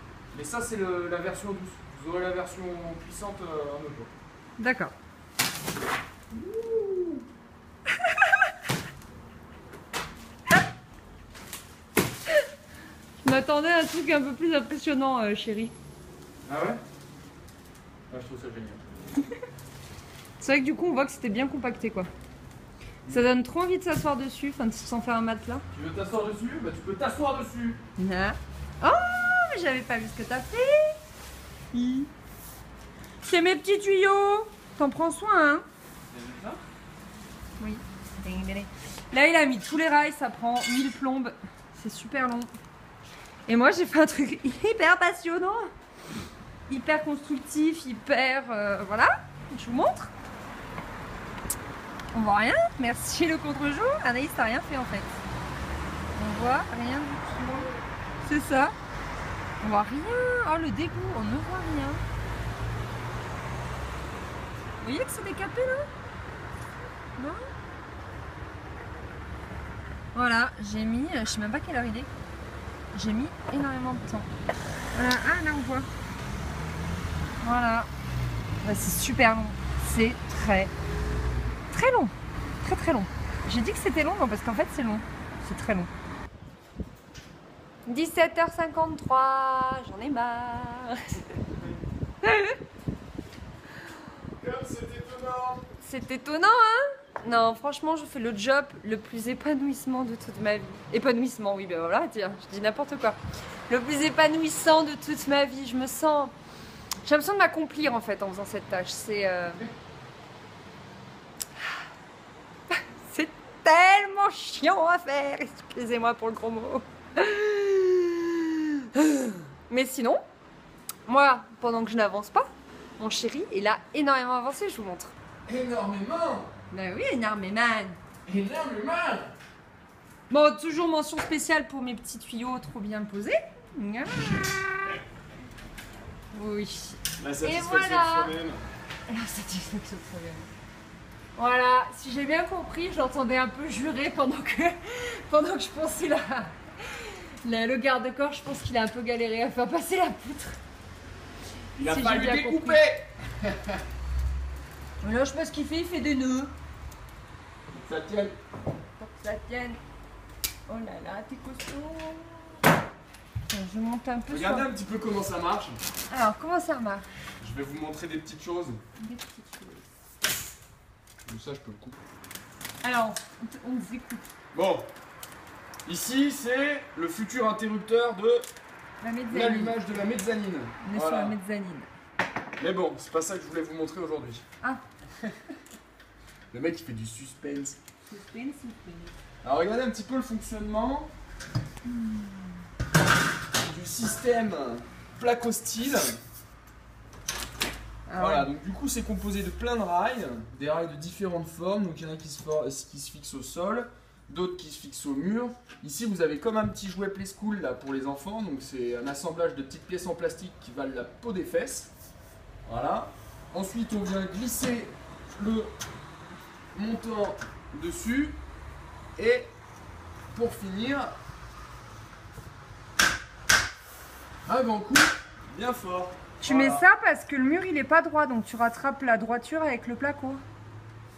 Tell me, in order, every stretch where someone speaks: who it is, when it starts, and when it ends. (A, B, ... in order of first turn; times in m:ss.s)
0:00.3-0:04.1 A
0:04.6-0:04.9 B
0:06.3-0:07.2 A
0:13.2-0:15.7 B
0:16.4-0:16.8 A
0:18.1-0:18.8 A
0:20.4-0:22.1 B
0:23.1-0:25.6 B
0:25.7-0:27.8 A
0:28.0-0:31.0 B
0:31.7-0:32.1 B
0:33.2-0:35.6 B
0:36.1-0:36.6 A
0:37.6-0:42.5 B
0:43.4-0:45.7 B
0:46.7-0:50.1 B
0:52.1-0:55.2 B
0:56.1-0:57.7 B
0:58.2-0:58.7 B
0:59.6-1:02.0 B
1:04.8-1:05.9 B
1:10.1-1:12.1 B
1:12.9-1:14.3 B
1:14.9-1:15.9 B
1:17.4-1:17.9 B
1:18.6-1:20.7 B
1:21.7-1:25.9 B
1:27.8-1:31.4 B
1:32.2-1:32.6 B
1:34.3-1:35.6 A
1:35.8-1:46.3 B
1:47.0-1:49.7 B
1:52.7-2:00.2 B
2:01.0-2:02.5 B
2:03.0-2:05.1 B
2:05.4-2:06.5 A
2:06.7-2:08.0 B
2:08.2-2:09.3 A
2:10.3-2:15.0 B
2:16.3-2:18.3 B
2:17.2-2:18.6 A
2:19.1-2:20.5 B
2:21.4-2:30.6 B
2:31.8-2:33.8 A
2:31.8-2:32.8 B
2:35.0-2:36.5 B
2:37.7-2:38.4 A
2:39.0-2:39.8 B
2:40.7-2:42.6 B
2:43.5-2:44.7 B
2:44.3-2:45.8 A
2:46.1-2:47.1 B
2:47.4-2:48.8 A
2:49.0-2:49.8 B
2:51.2-2:52.0 A
2:52.8-2:54.3 B
2:54.5-2:54.9 A
2:55.8-2:58.5 A
2:59.0-2:59.8 B
2:59.3-3:01.4 A
3:00.8-3:01.9 B
3:02.6-3:04.4 A
3:06.5-3:07.8 A
3:08.1-3:09.1 B
3:09.4-3:11.1 A
3:11.8-3:12.6 B
3:13.6-3:16.2 A
3:18.1-3:18.5 B
3:18.1-3:31.9 A
3:32.6-3:35.7 A
3:36.7-3:38.4 A
3:39.2-3:39.5 A
3:40.3-3:41.1 A
3:44.4-3:46.8 A
3:46.4-3:50.4 B